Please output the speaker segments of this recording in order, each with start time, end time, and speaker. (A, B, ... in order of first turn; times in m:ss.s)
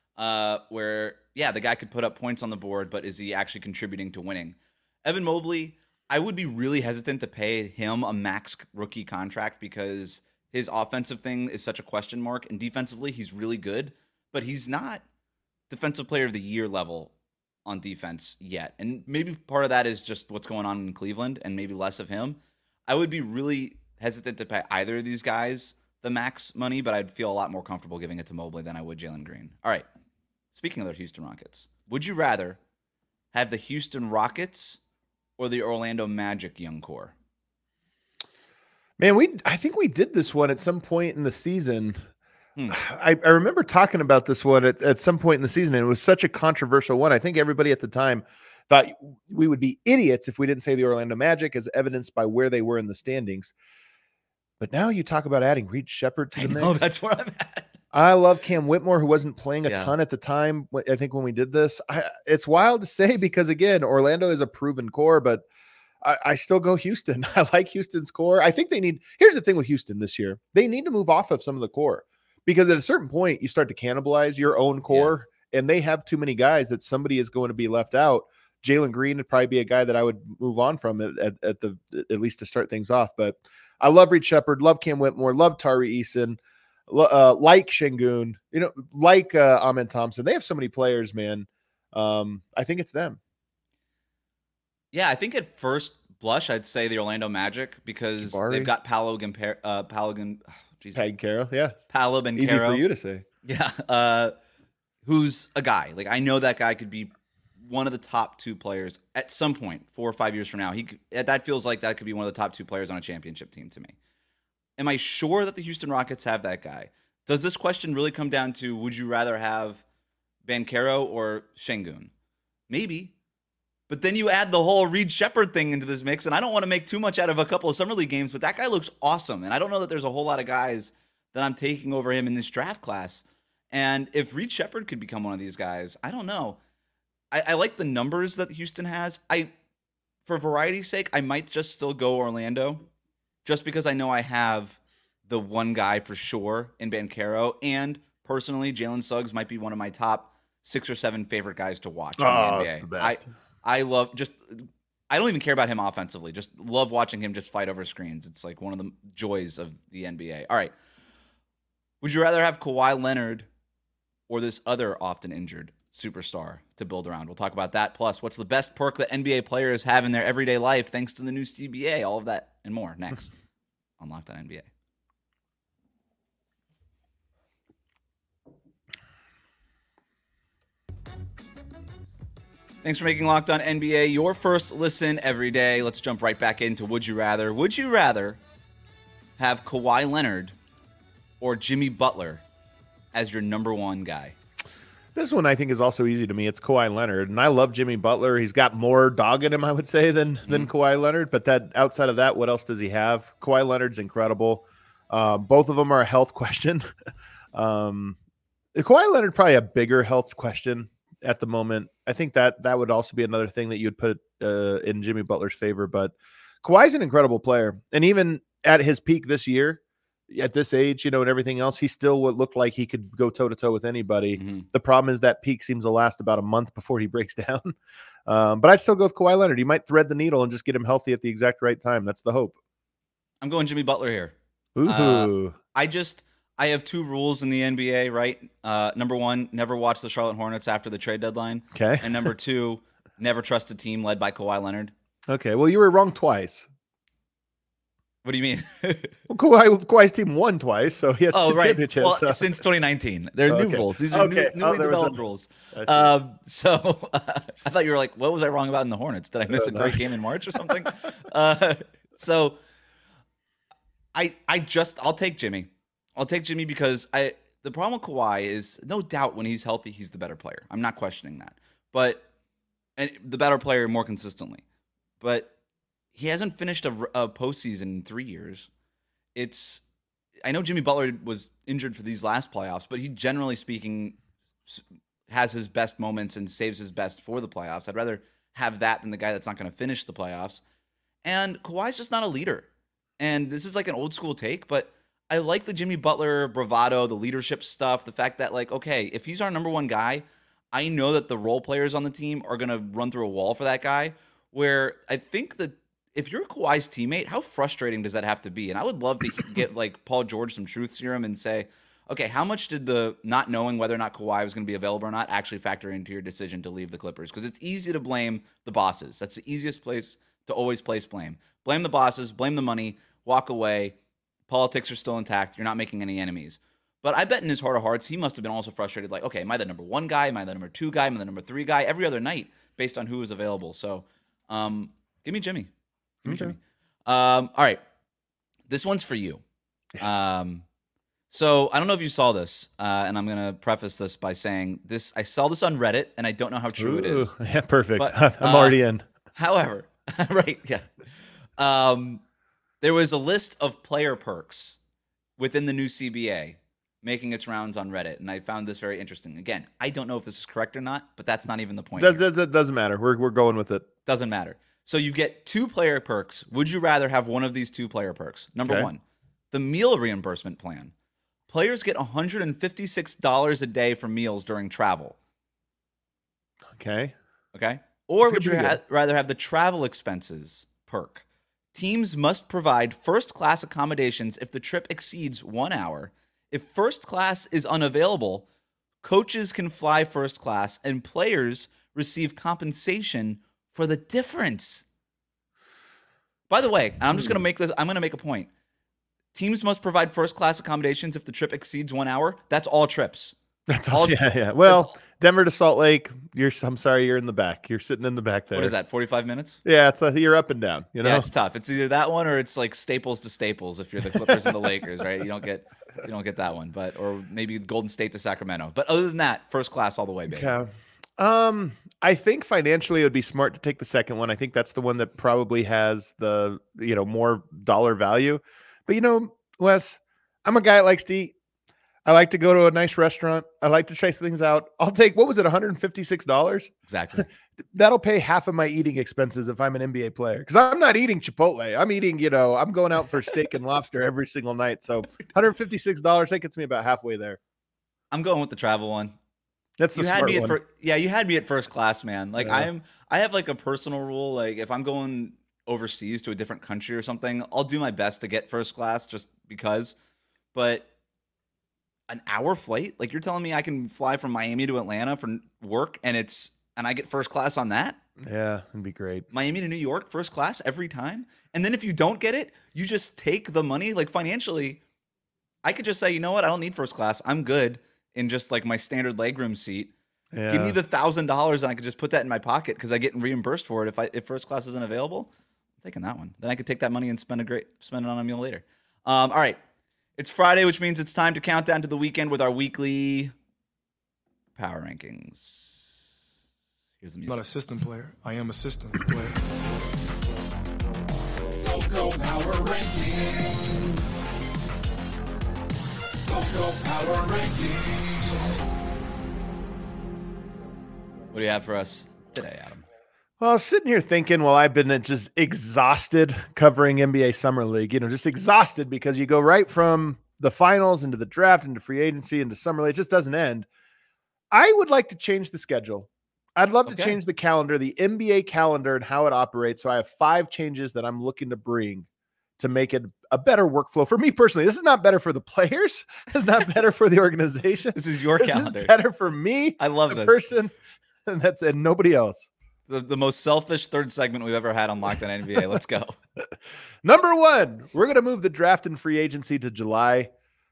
0:00.2-0:15.0 A
0:15.7-0:17.1 A
0:17.6-0:29.8 A
0:30.5-0:32.6 A
0:33.3-0:34.8 A
0:35.4-0:37.1 A
0:39.0-0:42.0 B
0:42.7-0:53.5 B
0:54.6-0:56.8 B
0:56.3-0:57.7 A
0:57.9-1:05.4 B
0:59.6-0:59.9 A
1:06.0-1:33.2 B
1:14.9-1:15.1 A
1:34.9-1:41.0 A
1:38.2-1:38.7 B
1:40.9-1:41.8 B
1:41.9-1:42.8 A
1:42.4-1:43.2 B
1:43.4-1:44.3 A
1:45.0-1:53.9 A
1:54.8-1:59.8 A
2:00.4-2:02.1 A
2:02.7-2:03.1 A
2:03.9-2:16.6 A
2:17.3-2:19.5 A
2:20.2-2:22.8 A
2:23.4-2:40.7 A
2:32.2-2:33.3 B
2:42.0-2:43.5 A
2:44.3-2:53.3 A
2:54.0-2:54.7 A
3:02.8-3:08.4 A
3:09.4-3:10.5 A
3:11.4-3:12.4 A
3:13.1-3:14.4 A
3:15.1-3:26.9 B
3:20.4-3:20.7 A
3:27.5-3:28.2 B
3:28.7-3:52.5 B
3:44.4-3:44.6 A
3:53.4-4:04.9 A
3:54.8-3:55.6 B
4:01.7-4:02.1 B
4:05.3-4:06.7 B
4:08.2-4:09.2 A
4:09.3-4:12.5 B
4:11.3-4:22.6 A
4:13.5-4:15.2 B
4:15.7-4:16.1 B
4:19.5-4:20.0 B
4:24.1-4:32.2 A
4:33.0-4:34.6 A
4:35.2-4:35.5 A
4:36.1-4:38.7 A
4:39.3-4:39.8 A
4:40.4-4:50.6 A
4:51.2-4:52.7 A
4:53.2-5:24.0 A
5:24.5-5:35.7 A
5:36.2-5:37.8 A
5:36.2-5:36.6 B
5:38.7-5:39.4 A
5:40.0-5:40.2 B
5:40.0-5:40.6 A
5:41.3-5:47.3 A
5:46.8-5:49.0 B
5:48.0-5:48.8 A
5:49.3-5:50.9 A
5:51.6-5:52.2 A
5:52.8-5:54.8 A
5:55.4-6:02.2 A
6:02.0-6:03.9 B
6:04.0-6:10.9 A
6:11.5-6:15.2 A
6:16.7-6:17.1 B
6:17.5-6:28.4 A
6:18.2-6:18.8 B
6:29.0-6:34.8 A
6:36.5-6:38.5 A
6:37.1-6:37.4 B
6:39.3-6:43.4 A
6:43.7-6:48.7 B
6:43.9-6:45.0 A
6:48.5-6:49.6 A
6:49.6-6:51.3 B
6:51.0-7:00.6 A
7:00.3-7:11.3 B
7:12.0-7:27.4 B
7:16.9-7:17.3 A
7:28.1-7:29.2 A
7:29.8-7:30.6 B
7:29.9-7:39.9 A
7:32.4-7:32.7 B
7:40.5-7:40.9 A
7:42.1-7:48.0 A
7:48.2-7:49.3 B
7:49.3-7:54.8 A
7:55.6-7:59.9 A
8:00.3-8:00.8 B
8:00.5-8:05.3 A
8:05.8-8:09.6 A
8:10.2-8:13.3 A
8:14.5-8:16.0 A
8:17.0-8:17.4 A
8:17.2-8:19.4 C
8:21.6-8:24.0 D
8:26.2-8:28.5 D
8:31.3-8:32.8 A
8:33.4-8:43.7 B
8:44.5-8:52.1 B
8:46.8-8:47.2 A
8:52.6-9:00.7 B
8:57.9-8:58.9 A
8:59.8-9:00.4 A
9:01.2-9:02.5 B
9:02.9-9:06.2 A
9:07.0-9:10.3 B